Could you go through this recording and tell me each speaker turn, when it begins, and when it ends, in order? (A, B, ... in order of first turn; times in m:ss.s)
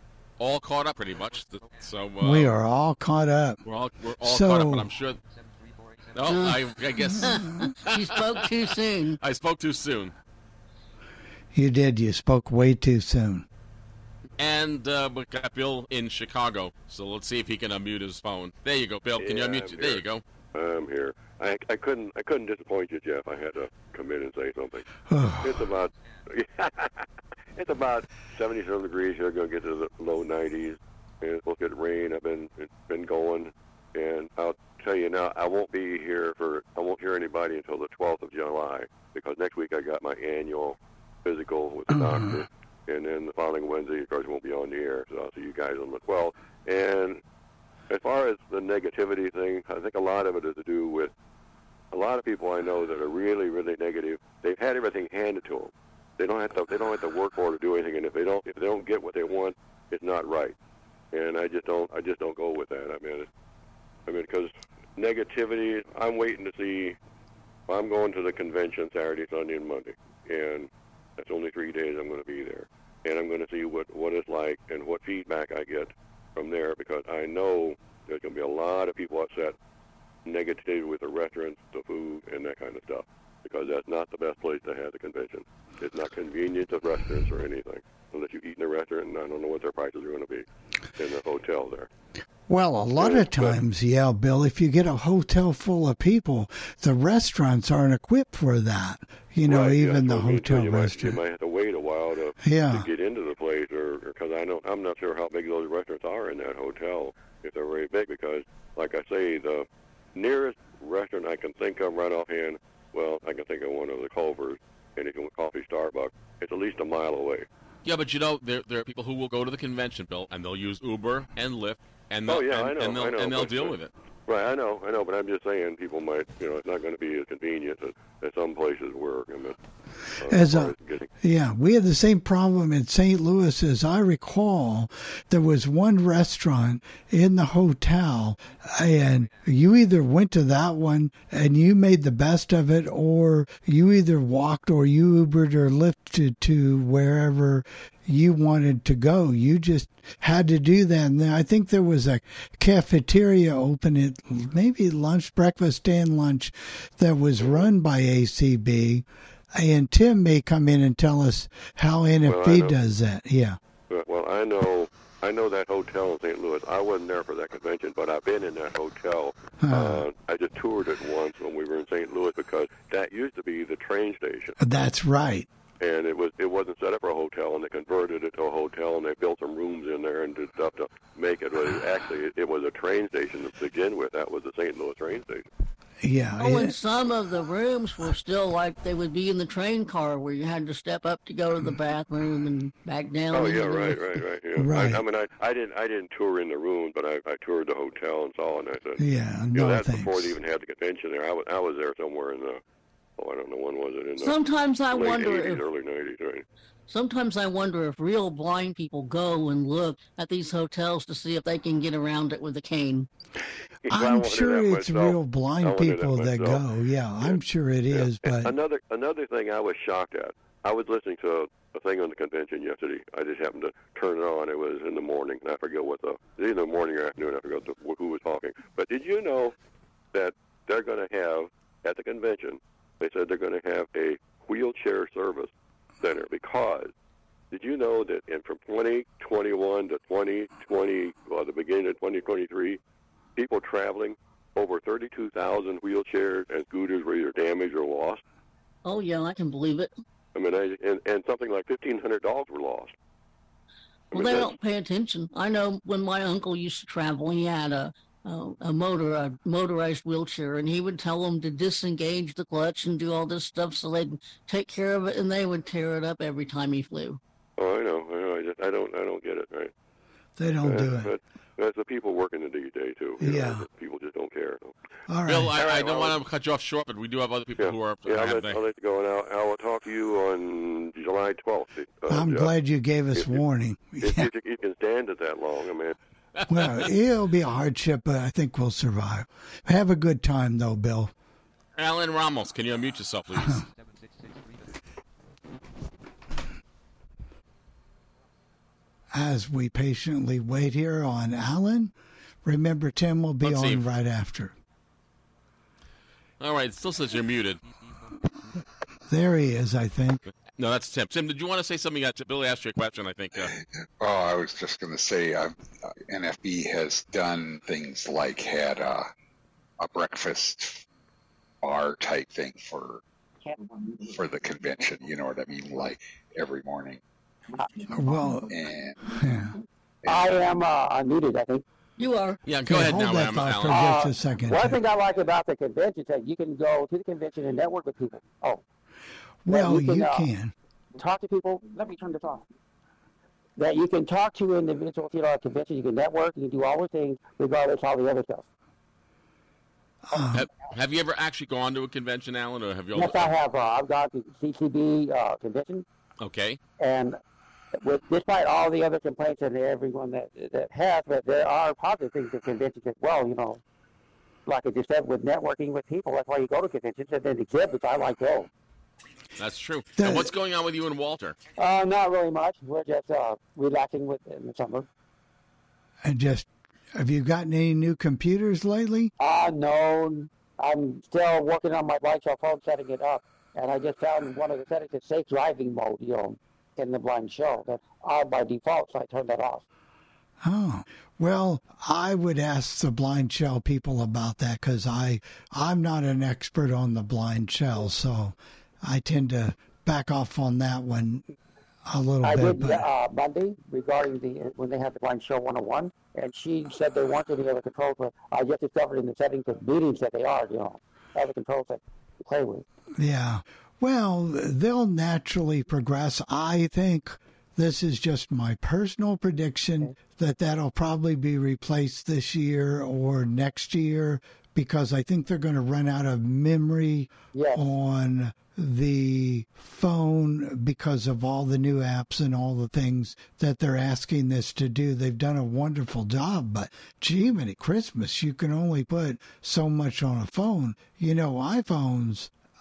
0:00.4-0:02.5 A
0:02.2-0:03.6 B
0:03.6-0:05.2 A
0:04.2-0:04.9 B
0:06.1-0:10.2 A
0:06.3-0:09.2 C
0:11.5-0:13.5 B
0:14.4-0:20.2 A
0:19.2-0:24.9 D
0:25.1-0:25.7 B
0:25.4-0:47.2 D
0:41.9-0:42.4 B
0:47.9-0:51.1 D
0:51.9-1:00.6 D
1:01.1-1:03.3 D
1:04.1-1:07.0 D
1:07.7-1:19.6 D
1:20.2-1:30.4 D
1:31.0-1:31.9 D
1:32.5-1:41.2 B
1:33.0-1:33.6 D
1:39.5-1:57.5 D
1:42.4-1:42.9 B
1:57.8-2:03.9 A
2:02.3-2:09.6 D
2:10.2-2:11.1 D
2:10.2-2:43.6 B
2:37.4-2:37.7 D
2:42.2-2:42.8 D
2:43.9-2:54.6 D
2:49.6-2:50.1 B
2:54.6-2:55.5 B
2:55.8-3:05.5 D
3:06.0-3:06.7 B
3:06.4-3:14.0 C
3:13.3-3:22.6 D
3:14.6-3:15.0 B
3:19.0-3:20.4 B
3:23.2-3:24.3 D
3:24.2-3:25.6 C
3:24.9-3:26.4 D
3:26.9-3:33.1 C
3:33.8-3:36.6 D
3:33.9-3:38.5 B
3:37.9-3:49.6 D
3:50.1-3:56.9 D
3:57.5-4:02.8 D
4:03.4-4:08.2 D
4:08.8-4:09.9 C
4:10.4-4:12.9 D
4:14.1-4:27.2 C
4:14.1-4:14.5 D
4:27.6-4:29.7 D
4:30.4-4:31.1 B
4:30.6-4:34.8 D
4:33.2-4:33.7 B
4:35.1-4:35.5 B
4:35.3-4:38.6 A
4:35.5-4:36.2 D
4:37.6-4:42.5 D
4:42.1-4:44.3 B
4:43.1-4:43.4 D
4:44.0-4:46.0 D
4:46.5-4:51.1 B
4:51.8-4:53.6 A
4:53.4-4:53.6 B
4:59.1-5:01.9 B
5:02.4-5:04.6 B
5:03.4-5:03.8 A
5:06.4-5:07.6 A
5:09.1-5:10.2 B
5:10.6-5:13.5 A
5:13.4-5:15.6 E
5:16.1-5:19.1 E
5:19.8-5:20.8 E
5:21.6-5:23.0 E
5:24.0-5:27.0 E
5:27.9-5:28.5 B
5:28.5-5:29.0 E
5:29.2-5:29.5 B
5:30.0-5:30.3 E
5:30.1-5:31.6 F
5:32.0-5:32.4 C
5:32.5-5:34.0 A
5:32.7-5:34.8 B
5:33.7-5:38.6 F
5:39.4-5:40.5 B
5:39.5-5:40.3 F
5:41.0-5:42.4 F
5:43.6-5:48.4 F
5:50.1-5:50.5 B
5:50.3-5:53.3 A
5:52.9-5:55.8 F
5:56.2-5:56.6 A
5:56.8-5:57.2 F
5:57.8-6:03.6 F
6:04.5-6:08.5 F
6:09.4-6:11.4 A
6:10.0-6:10.3 B
6:11.6-6:14.9 F
6:16.0-6:19.1 B
6:19.2-6:29.6 F
6:30.4-6:41.2 B
6:41.9-6:42.9 B
6:42.2-6:52.6 F
6:53.0-7:22.3 B
7:07.3-7:07.7 F